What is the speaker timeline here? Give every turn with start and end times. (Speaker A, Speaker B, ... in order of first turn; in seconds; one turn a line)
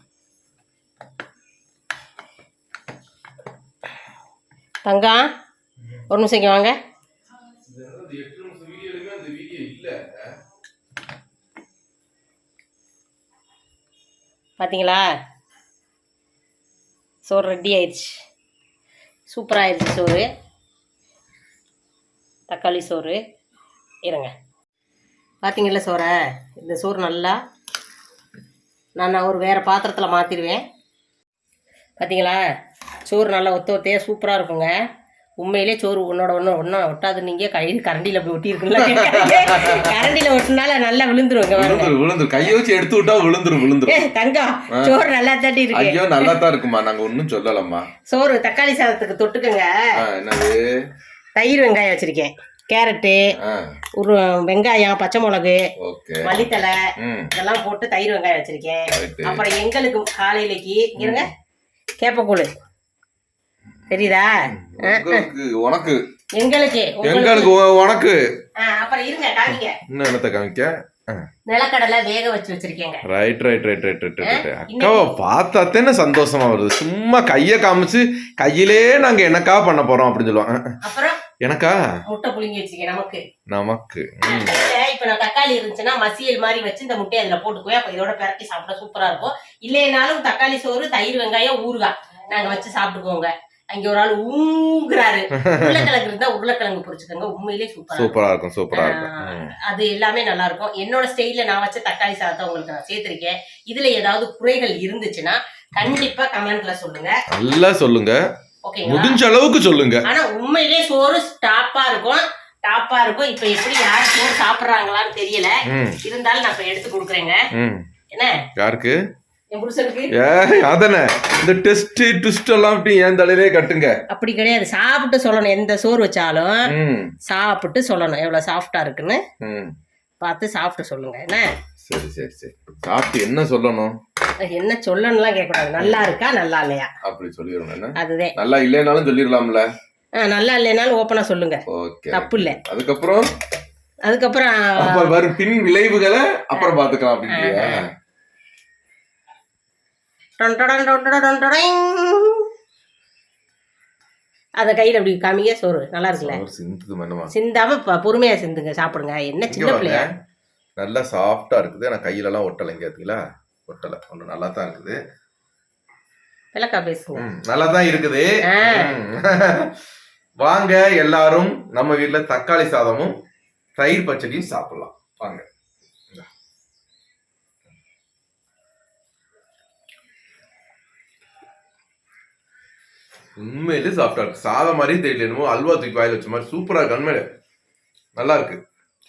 Speaker A: 4.8-5.2
Speaker A: 6.1-6.8
Speaker B: 7.7-10.4
Speaker A: 14.6-15.0
Speaker A: 17.2-18.1
Speaker A: 19.3-20.3
Speaker A: 22.5-23.2
Speaker A: 24.1-24.3
Speaker A: 25.4-27.4
Speaker A: 29.0-30.6
Speaker A: 32.0-32.4
Speaker A: 33.1-34.7
Speaker A: 35.4-41.9
Speaker B: 38.7-40.1
Speaker B: 41.6-44.0
Speaker A: 43.9-46.3
Speaker B: 44.7-45.0
Speaker B: 45.7-47.9
Speaker A: 48.1-49.8
Speaker B: 50.0-50.7
Speaker A: 51.4-53.3
Speaker B: 53.4-53.8
Speaker A: 54.0-55.6
Speaker B: 55.8-56.3
Speaker A: 56.2-56.8
Speaker B: 57.0-57.3
Speaker A: 57.4-61.3
Speaker B: 58.9-59.5
Speaker B: 61.0-61.3
Speaker A: 62.0-62.5
Speaker B: 63.8-66.0
Speaker A: 63.9-65.3
Speaker A: 66.4-67.5
Speaker B: 67.0-68.2
Speaker A: 68.6-69.8
Speaker B: 69.9-71.2
Speaker A: 71.5-73.0
Speaker B: 73.1-80.8
Speaker A: 74.2-75.2
Speaker A: 80.8-81.2
Speaker B: 81.4-82.0
Speaker A: 82.1-83.2
Speaker B: 83.5-84.6
Speaker A: 84.2-98.2
Speaker B: 95.4-95.9
Speaker B: 98.0-99.5
Speaker A: 98.7-107.2
Speaker B: 107.3-108.2
Speaker A: 108.7-109.2
Speaker B: 108.9-110.1
Speaker A: 110.1-117.4
Speaker B: 115.7-116.0
Speaker B: 117.5-117.9
Speaker A: 118.1-118.5
Speaker B: 118.6-119.0
Speaker A: 119.5-120.1
Speaker B: 120.1-124.0
Speaker A: 124.1-126.7
Speaker B: 126.7-127.2
Speaker A: 127.2-129.2
Speaker B: 129.4-129.8
Speaker A: 130.2-131.5
Speaker B: 131.8-133.9
Speaker A: 134.5-136.9
Speaker B: 135.8-136.1
Speaker B: 137.0-139.7
Speaker A: 138.0-138.3
Speaker A: 140.2-142.6
Speaker B: 141.7-143.3
Speaker A: 144.1-145.1
Speaker B: 144.8-147.9
Speaker A: 147.3-147.8
Speaker A: 150.4-152.4
Speaker A: 154.6-156.4
Speaker B: 156.2-157.3
Speaker A: 157.3-160.1
Speaker B: 159.5-160.2
Speaker B: 160.8-165.0
Speaker A: 166.5-167.2
Speaker B: 167.2-169.8
Speaker A: 168.5-168.9
Speaker B: 170.4-173.2
Speaker B: 173.8-175.4
Speaker B: 183.4-187.3
Speaker B: 188.2-188.6